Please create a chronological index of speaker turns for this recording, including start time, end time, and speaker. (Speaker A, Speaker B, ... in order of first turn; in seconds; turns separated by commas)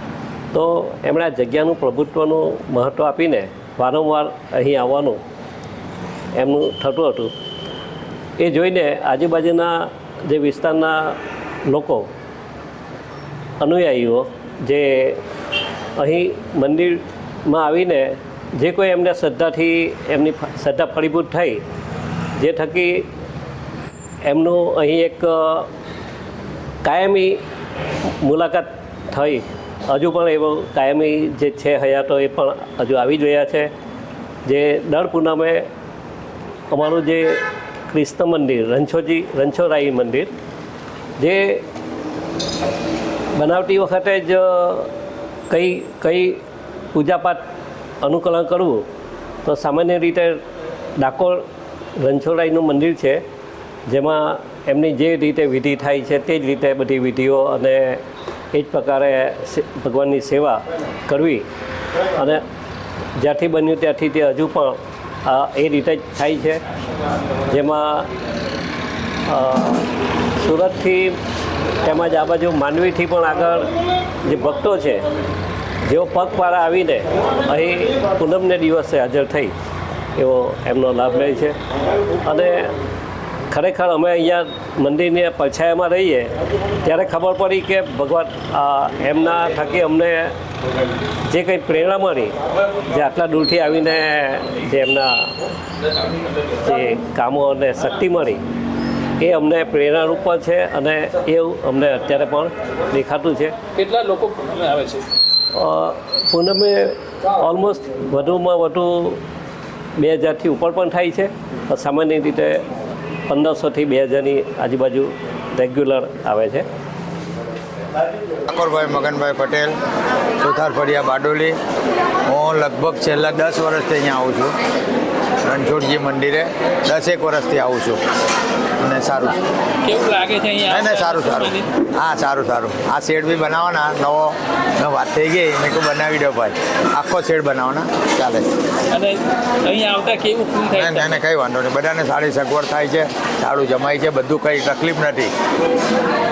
Speaker A: 0.5-5.2, Speaker A: 6.3-7.3, Speaker A: 8.4-12.1, Speaker A: 13.6-15.2, Speaker A: 16.0-21.6, Speaker A: 22.4-23.1, Speaker A: 24.2-25.7, Speaker A: 26.8-27.4, Speaker A: 28.2-33.7, Speaker A: 34.5-35.7, Speaker A: 36.7-40.3, Speaker A: 41.2-41.6, Speaker A: 43.3-44.9, Speaker A: 45.5-46.4, Speaker A: 46.9-47.4, Speaker A: 48.0-48.8, Speaker A: 49.4-50.4, Speaker A: 51.0-51.4, Speaker A: 52.0-53.2, Speaker A: 53.9-58.0, Speaker A: 58.5-61.4, Speaker A: 62.1-62.4, Speaker A: 63.2-66.6, Speaker A: 67.5-68.1, Speaker A: 69.3-69.8, Speaker A: 70.4-71.2, Speaker A: 71.8-73.7, Speaker A: 74.2-75.0, Speaker A: 75.8-79.5, Speaker A: 80.2-81.6, Speaker A: 82.2-82.7, Speaker A: 83.5-90.3, Speaker A: 91.2-95.3, Speaker A: 96.6-98.4, Speaker A: 99.2-103.5, Speaker B: 103.8-105.0, Speaker A: 105.5-109.2, Speaker A: 110.0-112.6, Speaker A: 113.3-116.6, Speaker C: 118.5-119.7, Speaker C: 120.4-121.6, Speaker C: 122.2-124.5, Speaker C: 125.4-128.0, Speaker C: 128.8-129.4, Speaker B: 129.8-131.7, Speaker C: 130.7-138.5, Speaker B: 138.9-141.2, Speaker C: 140.7-145.3